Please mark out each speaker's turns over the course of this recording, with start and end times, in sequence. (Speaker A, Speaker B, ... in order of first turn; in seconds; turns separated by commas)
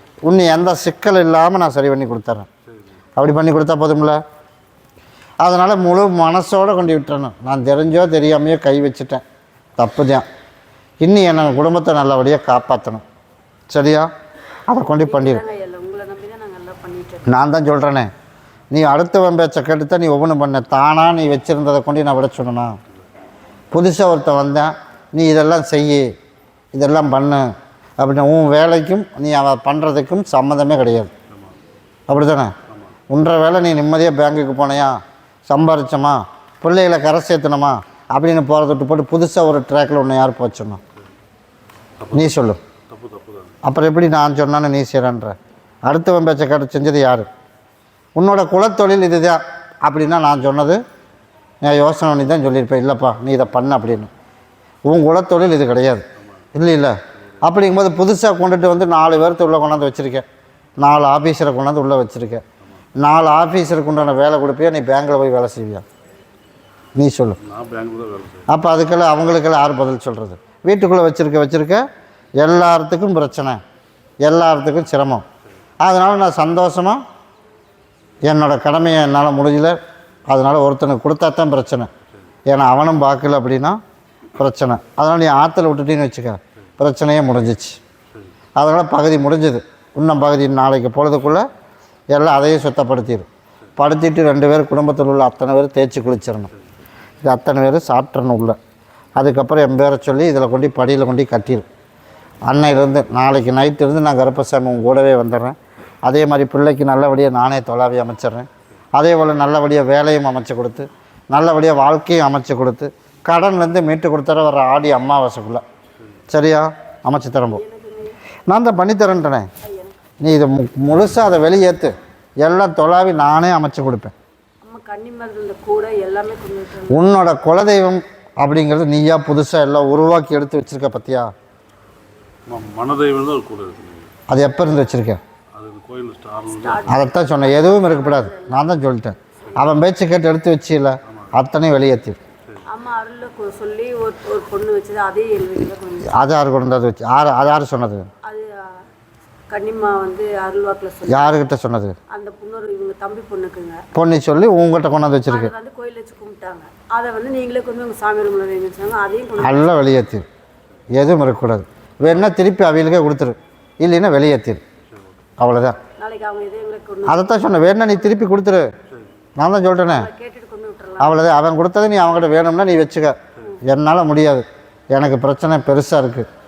Speaker A: 0.2-2.5, Speaker A: 3.1-4.2, Speaker A: 5.4-9.2, Speaker A: 9.8-10.2, Speaker A: 11.0-13.0, Speaker A: 13.7-14.1, Speaker A: 14.7-15.4, Speaker B: 15.0-17.3, Speaker A: 17.3-18.1, Speaker A: 18.7-22.8, Speaker A: 23.7-26.1, Speaker A: 26.7-27.5, Speaker A: 28.0-31.1, Speaker A: 32.1-32.6, Speaker A: 33.1-40.8, Speaker C: 42.0-42.4, Speaker A: 42.1-42.6, Speaker C: 42.9-43.5, Speaker A: 43.6-47.3, Speaker A: 48.1-50.8, Speaker A: 51.6-54.1, Speaker A: 54.9-60.2, Speaker A: 60.8-62.4, Speaker A: 63.0-65.8, Speaker A: 67.0-67.4, Speaker C: 67.4-68.5, Speaker A: 68.5-71.8, Speaker A: 72.4-73.6, Speaker A: 74.2-75.2, Speaker A: 75.8-77.0, Speaker A: 78.2-81.9, Speaker A: 82.5-83.8, Speaker A: 84.3-87.8, Speaker A: 88.6-91.5, Speaker A: 92.1-96.5, Speaker A: 97.2-98.6, Speaker A: 99.2-101.7, Speaker A: 102.4-115.6, Speaker A: 116.3-117.6, Speaker B: 117.5-118.2, Speaker A: 118.5-119.5, Speaker B: 119.6-120.0, Speaker A: 120.2-124.1, Speaker B: 124.6-127.0, Speaker A: 126.9-131.3, Speaker C: 132.5-134.1, Speaker A: 134.3-135.2, Speaker C: 135.6-137.1, Speaker B: 136.5-138.8, Speaker A: 136.9-142.2, Speaker B: 142.6-146.2, Speaker A: 146.1-148.1, Speaker B: 148.2-148.8, Speaker B: 149.5-151.4, Speaker A: 151.1-151.9, Speaker B: 152.1-153.8, Speaker A: 153.9-155.5, Speaker B: 155.3-159.8, Speaker A: 159.4-160.2, Speaker A: 160.9-164.6, Speaker A: 165.4-165.8, Speaker B: 166.0-168.2, Speaker A: 167.1-168.7, Speaker A: 169.4-170.1, Speaker B: 169.8-171.2, Speaker A: 171.0-176.3